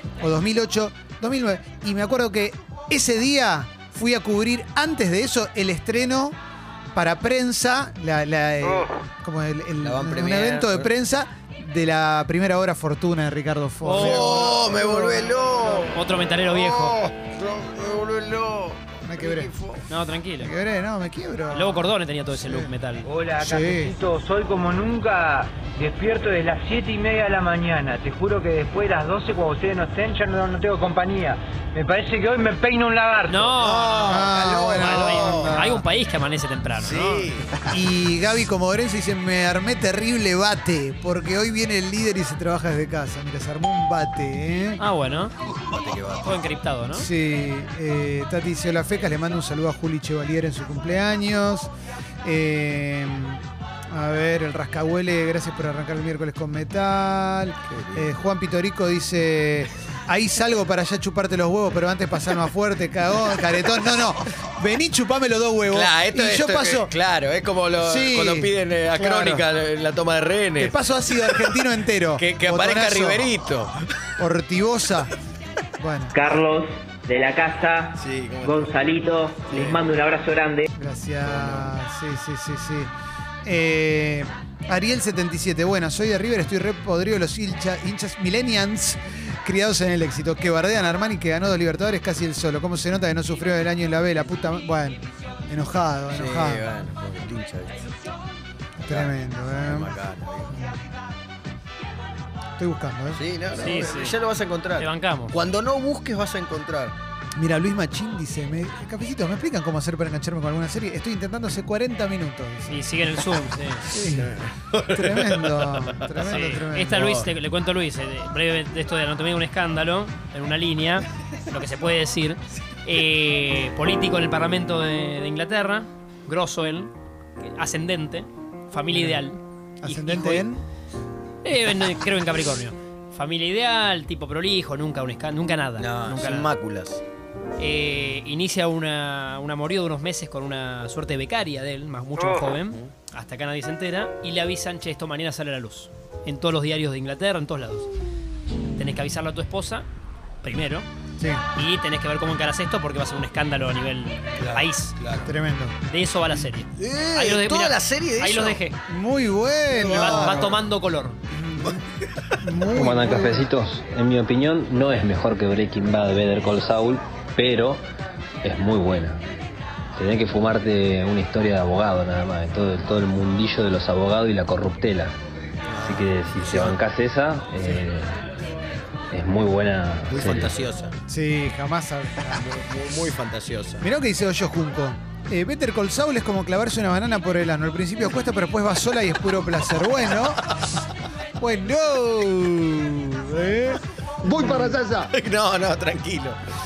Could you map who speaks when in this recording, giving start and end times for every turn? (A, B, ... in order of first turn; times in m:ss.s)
0:00.2-0:06.4 A
0:06.9-0:15.4 A
0:09.8-0:10.9 B
0:13.8-0:14.6 C
0:13.9-0:16.0 B
0:15.9-0:17.0 C
0:16.5-0:19.9 B
0:19.1-0:19.5 A
0:19.9-0:20.5 C
0:20.4-0:22.7 A
0:21.5-0:23.1 C
0:23.1-0:33.5 D
0:23.4-0:24.0 A
0:33.3-0:37.3 C
0:33.6-0:35.6 B
0:34.1-0:35.9 A
0:36.8-0:37.6 B
0:37.7-0:44.8 A
0:44.8-0:45.3 C
0:45.5-0:46.4 B
0:46.2-0:47.1 C
0:47.0-0:51.7 A
0:52.2-1:06.9 A
0:57.7-0:58.2 B
1:05.7-1:11.6 B
1:07.8-1:09.4 A
1:10.6-1:13.3 A
1:12.2-1:13.8 B
1:14.2-1:15.1 A
1:15.8-1:16.2 A
1:16.1-1:20.7 E
1:18.0-1:19.8 B
1:20.8-1:22.9 A
1:21.3-1:21.7 B
1:23.4-1:36.7 A
1:36.1-1:37.8 B
1:38.8-1:40.0 A
1:38.9-1:40.5 B
1:40.5-1:40.8 A
1:42.6-1:43.8 A
1:43.1-1:47.0 B
1:43.5-1:44.1 C
1:44.8-1:45.3 C
1:47.4-1:52.9 A
1:52.7-1:53.9 C
1:53.9-1:54.4 A
1:54.2-1:55.8 B
1:54.9-1:57.0 A
1:56.2-2:10.5 C
1:57.0-1:57.3 B
2:08.9-2:09.2 A
2:09.8-2:10.6 A
2:11.4-2:16.5 C
2:15.8-2:17.0 B
2:17.6-2:27.9 C
2:28.8-2:29.9 C
2:30.4-2:30.9 C
2:31.6-2:35.0 C
2:34.4-2:35.3 B
2:35.2-2:35.8 A
2:35.9-2:38.8 C
2:36.8-2:38.6 B
2:38.9-2:40.6 A
2:39.7-2:40.6 B
2:39.8-2:41.2 C
2:41.3-2:41.8 A
2:42.4-2:43.5 A
2:42.7-2:47.8 F
2:48.4-2:49.2 F
2:50.0-2:55.2 F
2:55.7-2:56.8 B
2:55.8-2:58.2 F
2:59.1-3:00.6 F
3:00.1-3:01.0 B
3:01.1-3:02.4 A
3:02.3-3:03.8 B
3:03.8-3:10.6 A
3:11.4-3:14.9 A
3:15.1-3:16.4 B